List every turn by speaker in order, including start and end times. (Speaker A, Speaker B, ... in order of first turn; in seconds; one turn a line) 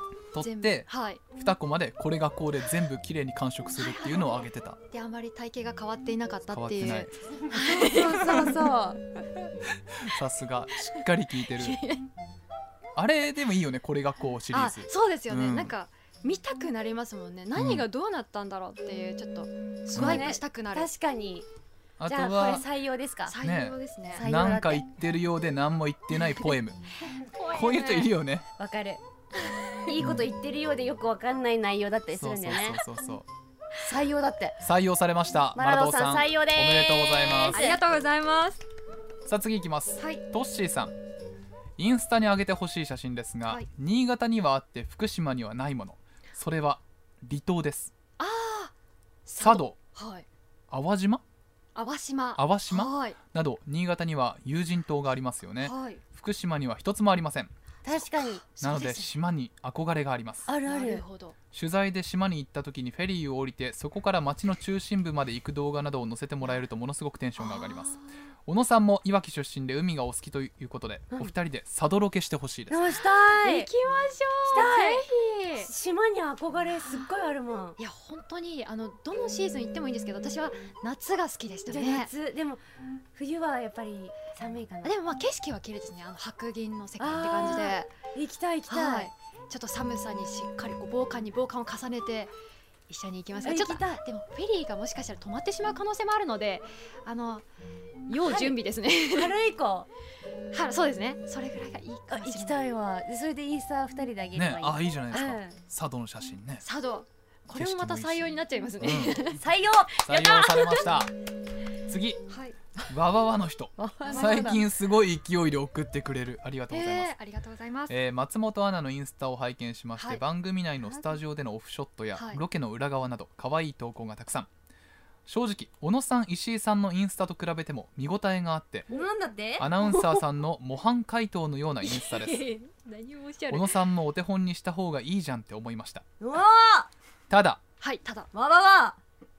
Speaker A: 0.3-4.8
Speaker B: 0.4-1.2
Speaker B: 3.8-8.6
Speaker A: 6.5-7.1
Speaker C: 7.5-9.0
Speaker A: 9.9-11.8
Speaker B: 10.9-12.1
Speaker A: 13.0-15.7
Speaker B: 14.5-20.9
Speaker A: 17.6-17.9
Speaker A: 19.9-20.3
Speaker C: 19.9-21.5
Speaker A: 22.0-22.6
Speaker C: 22.1-23.4
Speaker B: 23.3-24.3
Speaker A: 23.4-26.8
Speaker C: 24.1-24.9
Speaker B: 27.1-28.1
Speaker A: 27.5-28.5
Speaker C: 28.6-29.0
Speaker B: 29.5-29.8
Speaker C: 29.9-32.8
Speaker A: 30.0-30.2
Speaker A: 32.1-33.3
Speaker C: 33.8-34.6
Speaker A: 34.6-37.6
Speaker C: 35.5-37.8
Speaker B: 37.5-38.6
Speaker A: 39.3-40.9
Speaker B: 40.0-40.2
Speaker A: 41.8-47.9
Speaker B: 48.2-48.7
Speaker B: 49.3-50.3
Speaker A: 49.4-49.8
Speaker A: 50.7-51.2
Speaker B: 51.8-53.2
Speaker A: 52.4-57.5
Speaker B: 55.6-56.0
Speaker C: 57.9-58.4
Speaker B: 58.1-59.1
Speaker A: 58.6-60.5
Speaker C: 60.5-61.0
Speaker B: 60.7-61.4
Speaker A: 61.5-72.9
Speaker B: 67.4-68.0
Speaker C: 72.7-73.7
Speaker B: 73.0-75.7
Speaker C: 74.5-77.8
Speaker B: 77.8-82.1
Speaker C: 81.7-85.0
Speaker B: 84.8-87.9
Speaker C: 87.0-89.1
Speaker B: 88.7-92.3
Speaker B: 92.9-97.5
Speaker C: 93.4-94.0
Speaker B: 98.1-99.3
Speaker C: 98.1-99.9
Speaker B: 100.5-102.7
Speaker C: 102.1-105.6
Speaker A: 104.3-106.6
Speaker B: 106.6-109.4
Speaker A: 107.5-109.3
Speaker C: 109.3-110.5
Speaker A: 110.0-111.1
Speaker A: 111.9-112.2
Speaker B: 112.3-112.6
Speaker A: 112.9-117.1
Speaker C: 113.8-114.6
Speaker B: 114.0-114.7
Speaker B: 116.7-118.0
Speaker A: 117.9-124.5
Speaker B: 122.2-122.4
Speaker A: 125.3-128.9
Speaker C: 128.9-130.1
Speaker A: 129.6-132.5
Speaker B: 131.9-133.8
Speaker A: 133.5-136.1
Speaker C: 136.2-136.9
Speaker A: 137.3-137.6
Speaker B: 137.8-138.3
Speaker C: 138.3-139.0